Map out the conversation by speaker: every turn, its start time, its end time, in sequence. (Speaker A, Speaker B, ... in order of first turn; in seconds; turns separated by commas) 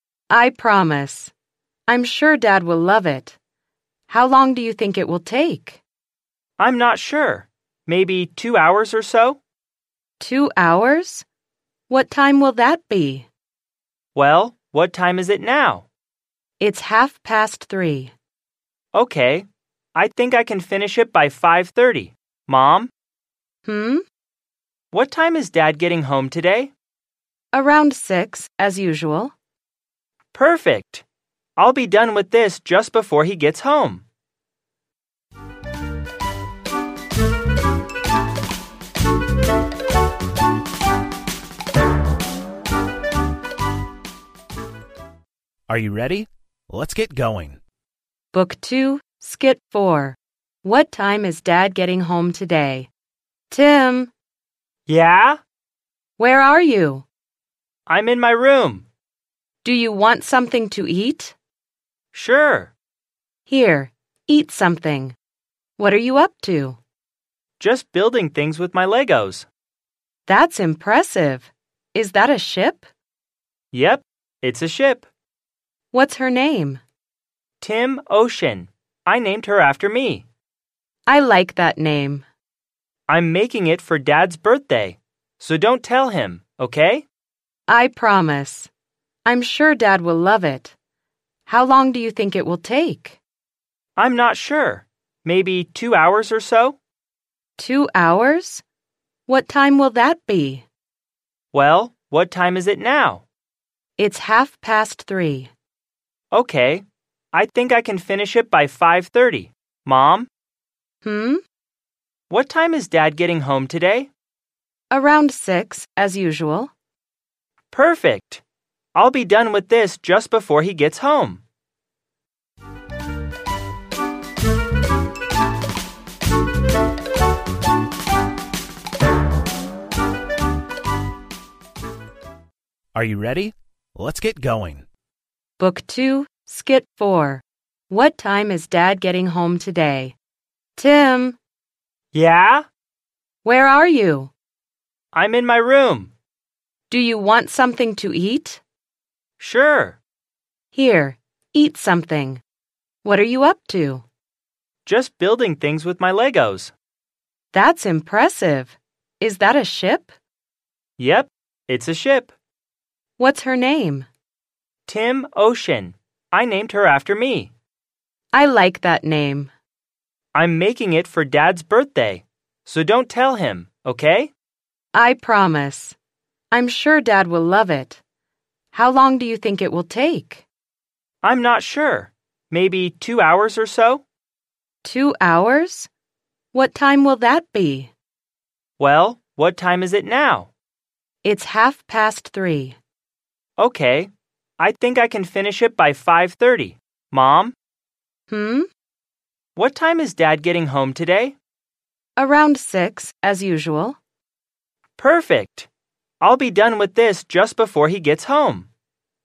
Speaker A: 0.3-1.3, Speaker A: 1.9-3.4, Speaker A: 4.1-5.8, Speaker B: 6.6-9.4, Speaker A: 10.2-11.2, Speaker A: 11.9-13.3, Speaker B: 14.1-15.9, Speaker A: 16.6-18.1, Speaker B: 18.9-22.9, Speaker A: 23.6-24.0, Speaker B: 24.9-26.7, Speaker A: 27.5-29.3, Speaker B: 30.3-31.0, Speaker B: 31.6-34.0, Speaker C: 45.7-47.6, Speaker A: 48.3-52.9, Speaker A: 53.5-54.1, Speaker B: 54.9-55.4, Speaker A: 56.2-57.0, Speaker B: 57.9-58.9, Speaker A: 59.6-61.3, Speaker B: 62.1-62.7, Speaker A: 63.5-65.2, Speaker A: 65.8-66.8, Speaker B: 67.6-69.5, Speaker A: 70.2-72.8, Speaker B: 73.7-75.0, Speaker A: 75.9-76.8, Speaker B: 77.6-80.2, Speaker A: 81.0-82.2, Speaker B: 83.1-87.0, Speaker A: 87.7-88.7, Speaker A: 89.2-90.7, Speaker A: 91.5-93.2, Speaker B: 94.0-96.8, Speaker A: 97.6-98.6, Speaker A: 99.3-100.7, Speaker B: 101.5-103.2, Speaker A: 104.0-105.5, Speaker B: 106.3-110.3, Speaker A: 111.0-111.4, Speaker B: 112.3-114.1, Speaker A: 114.9-116.7, Speaker B: 117.7-118.4, Speaker B: 118.9-121.4, Speaker C: 132.9-134.8, Speaker A: 135.6-140.2, Speaker A: 140.8-141.4, Speaker B: 142.1-142.6, Speaker A: 143.4-144.3, Speaker B: 145.1-146.1, Speaker A: 146.9-148.6, Speaker B: 149.4-150.0, Speaker A: 150.7-152.4, Speaker A: 153.0-154.0, Speaker B: 154.8-156.7, Speaker A: 157.5-160.1, Speaker B: 161.0-162.3, Speaker A: 163.2-164.1, Speaker B: 164.8-167.5, Speaker A: 168.3-169.5, Speaker B: 170.3-174.3, Speaker A: 174.9-175.9, Speaker A: 176.5-178.0, Speaker A: 178.7-180.4, Speaker B: 181.2-184.0, Speaker A: 184.8-185.9, Speaker A: 186.5-187.9, Speaker B: 188.8-190.5, Speaker A: 191.2-192.8, Speaker B: 193.6-197.5, Speaker A: 198.3-198.7, Speaker B: 199.6-201.3, Speaker A: 202.2-204.0, Speaker B: 205.0-205.7, Speaker B: 206.2-208.7